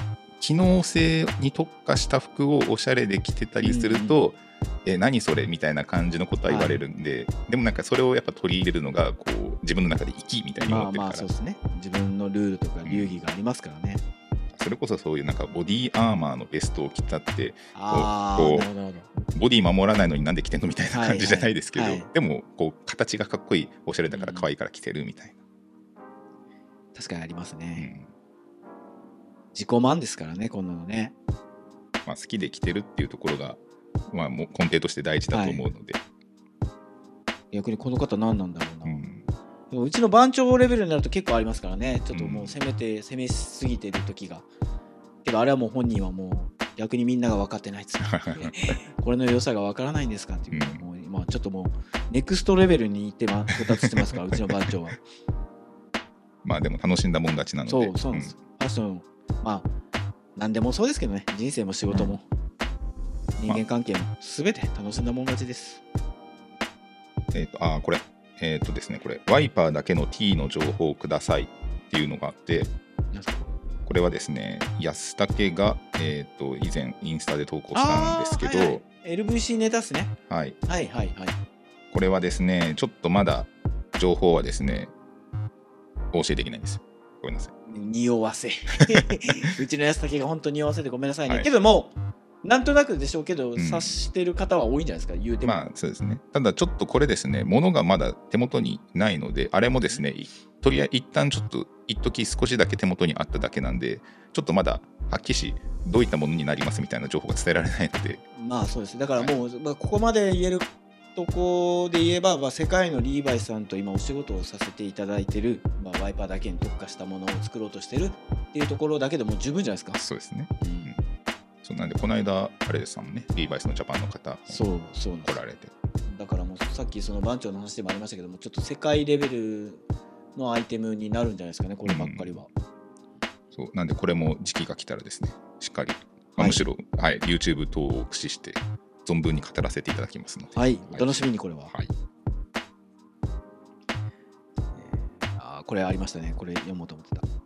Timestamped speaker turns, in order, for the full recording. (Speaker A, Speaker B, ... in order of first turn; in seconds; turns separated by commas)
Speaker A: 0.4-11.3, Speaker B: 3.6-4.2, Speaker B: 6.5-6.8, Speaker B: 10.6-14.0, Speaker A: 12.8-13.2, Speaker A: 14.5-25.4, Speaker B: 17.7-19.1, Speaker B: 20.9-22.1, Speaker B: 24.1-24.5, Speaker B: 26.9-27.9, Speaker A: 27.8-28.1, Speaker B: 29.5-31.1, Speaker A: 32.0-36.0, Speaker B: 35.3-35.6, Speaker B: 37.5-39.0, Speaker A: 38.8-39.3, Speaker B: 39.7-44.5, Speaker A: 42.1-42.5, Speaker B: 45.2-55.0, Speaker A: 48.0-48.7, Speaker A: 50.5-50.8, Speaker A: 56.4-58.3, Speaker B: 57.7-59.7, Speaker B: 60.4-62.2, Speaker B: 63.4-65.8, Speaker A: 67.3-72.7, Speaker B: 73.1-73.6, Speaker A: 73.8-78.8, Speaker B: 77.7-80.1, Speaker A: 80.3-80.6, Speaker B: 80.7-81.4, Speaker A: 81.9-84.9, Speaker A: 86.1-87.5, Speaker B: 87.7-95.6, Speaker A: 93.5-94.0, Speaker A: 95.4-108.2, Speaker B: 108.3-120.0, Speaker A: 120.0-121.0, Speaker B: 120.6-120.9, Speaker A: 121.6-124.6, Speaker B: 124.5-125.4, Speaker A: 125.2-125.7, Speaker B: 126.1-129.8, Speaker B: 130.3-132.5, Speaker A: 131.8-132.4, Speaker A: 133.5-141.9, Speaker B: 136.4-136.6, Speaker B: 140.5-141.7, Speaker B: 144.7-147.2